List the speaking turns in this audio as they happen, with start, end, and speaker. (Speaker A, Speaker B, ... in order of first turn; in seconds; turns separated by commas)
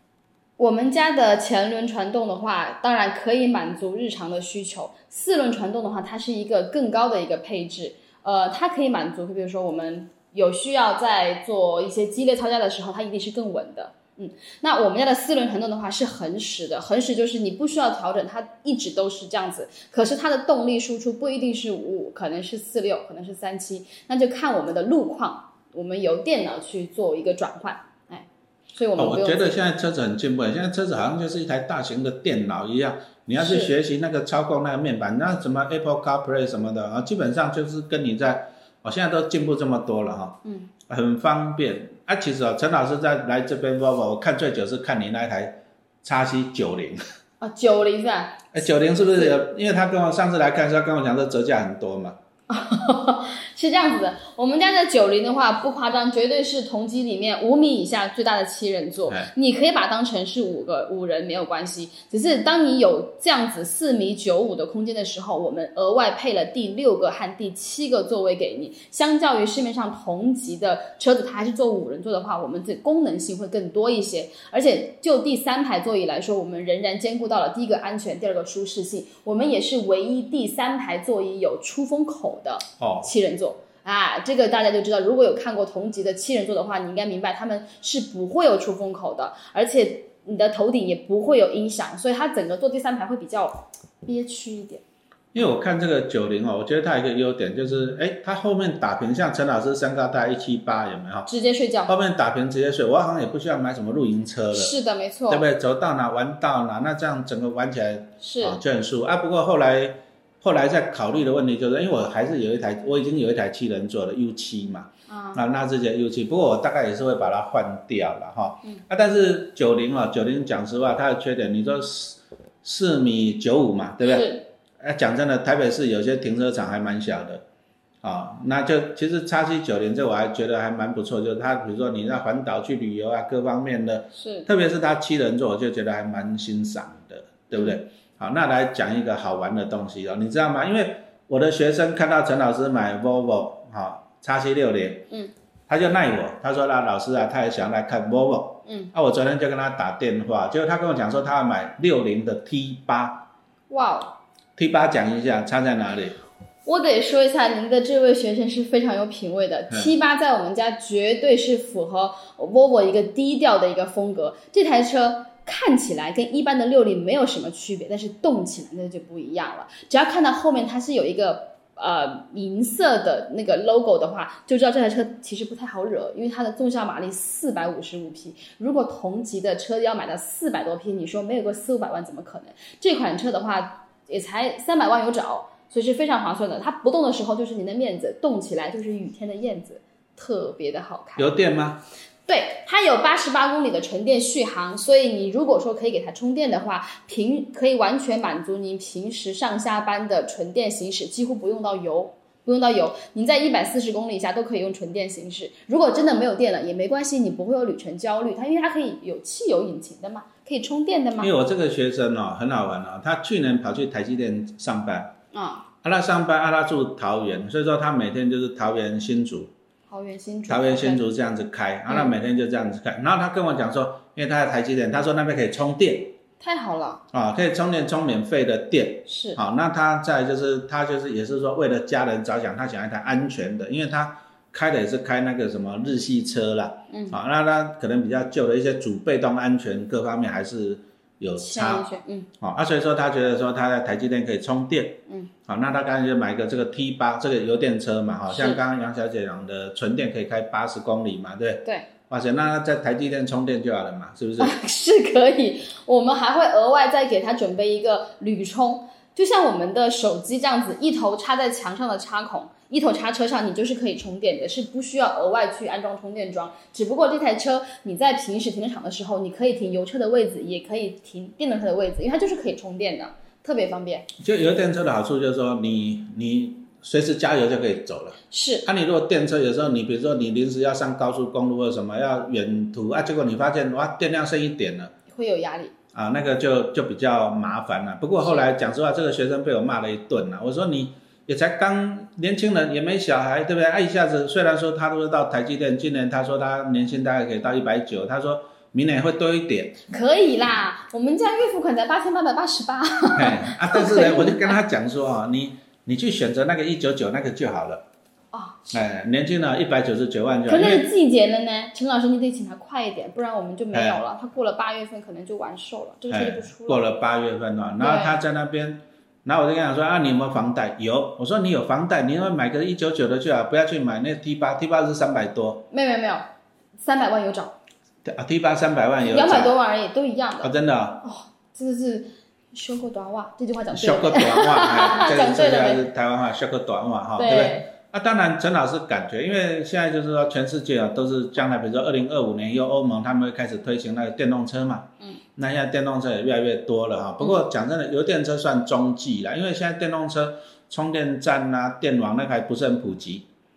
Speaker A: 0.6-29.6, Speaker B: 29.0-47.0, Speaker A: 33.4-33.7, Speaker A: 40.4-40.7, Speaker A: 47.4-49.4, Speaker B: 48.5-52.2, Speaker A: 52.5-94.8, Speaker B: 82.8-83.1, Speaker B: 95.3-101.3, Speaker A: 101.2-101.9, Speaker B: 101.9-104.7, Speaker A: 104.5-105.4, Speaker B: 105.3-127.4, Speaker A: 108.2-108.6, Speaker A: 115.1-115.4, Speaker A: 124.0-124.5, Speaker B: 128.0-145.1, Speaker A: 134.1-134.5, Speaker A: 137.5-137.8, Speaker B: 145.7-153.3, Speaker A: 148.7-148.9, Speaker A: 153.7-154.2, Speaker B: 154.6-156.2, Speaker A: 156.6-191.3, Speaker B: 191.2-191.8, Speaker A: 192.3-211.3, Speaker B: 211.2-215.1, Speaker A: 215.3-215.7, Speaker B: 215.8-219.5, Speaker A: 219.9-221.0, Speaker B: 220.5-226.2, Speaker A: 221.9-222.1, Speaker A: 226.4-227.0, Speaker B: 227.1-241.8, Speaker A: 229.1-229.4, Speaker A: 236.9-237.2, Speaker A: 241.4-242.3, Speaker B: 242.4-254.5, Speaker A: 248.3-248.6, Speaker A: 251.6-251.9, Speaker A: 254.4-274.1, Speaker B: 274.2-284.9, Speaker A: 278.3-278.7, Speaker A: 285.1-285.7, Speaker B: 285.9-299.8, Speaker A: 288.2-288.4, Speaker A: 299.9-304.6, Speaker B: 303.1-307.8, Speaker A: 308.3-308.8, Speaker B: 308.7-310.9, Speaker A: 310.5-316.8, Speaker B: 313.7-314.0, Speaker B: 316.1-325.6, Speaker A: 317.8-318.2, Speaker A: 325.7-326.2, Speaker A: 326.8-327.6, Speaker B: 328.0-329.5, Speaker A: 329.0-335.9, Speaker B: 330.4-331.0, Speaker B: 333.7-353.2, Speaker A: 337.2-337.7